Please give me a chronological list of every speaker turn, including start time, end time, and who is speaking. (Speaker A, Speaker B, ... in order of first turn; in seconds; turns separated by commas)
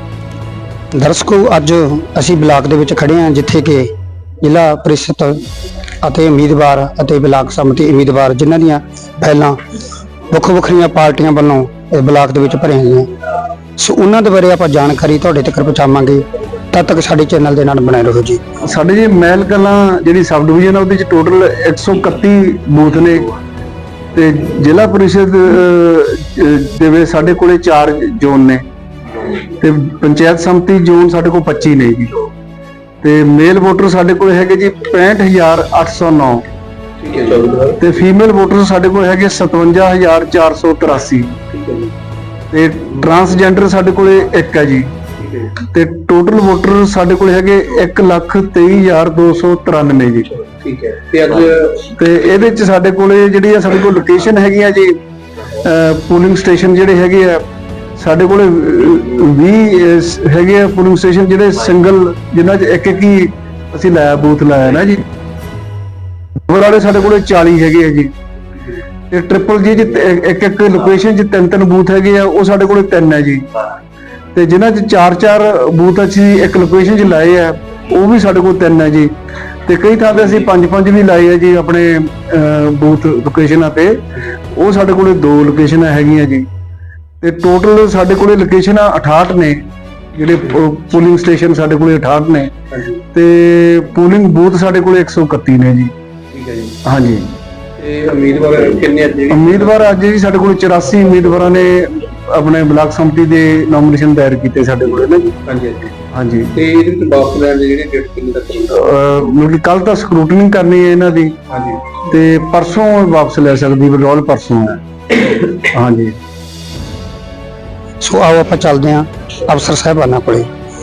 Speaker A: 0.9-3.9, Speaker A: 4.4-5.4, Speaker A: 6.0-9.6, Speaker A: 10.3-13.1, Speaker A: 13.8-18.4, Speaker B: 18.7-23.3, Speaker B: 24.1-28.6, Speaker B: 29.5-32.3, Speaker B: 33.0-36.4, Speaker C: 37.0-37.8, Speaker B: 37.8-41.3, Speaker C: 41.5-41.9, Speaker B: 42.5-44.9, Speaker C: 45.2-45.5, Speaker B: 45.6-50.3, Speaker C: 50.3-51.9, Speaker B: 51.8-55.0, Speaker B: 55.5-57.4, Speaker B: 58.0-65.0, Speaker B: 66.5-68.1, Speaker B: 69.1-73.4, Speaker B: 74.3-79.1, Speaker B: 79.7-86.5, Speaker B: 87.2-89.6, Speaker B: 90.1-92.5, Speaker C: 92.7-93.0, Speaker B: 93.1-95.9, Speaker C: 96.3-96.8, Speaker B: 96.8-97.3, Speaker C: 97.8-99.9, Speaker B: 99.3-105.4, Speaker C: 105.4-106.0, Speaker B: 106.1-106.6, Speaker C: 106.5-108.7, Speaker B: 108.7-111.3, Speaker C: 111.5-112.0, Speaker B: 112.0-114.8, Speaker B: 115.4-116.1, Speaker A: 118.0-120.5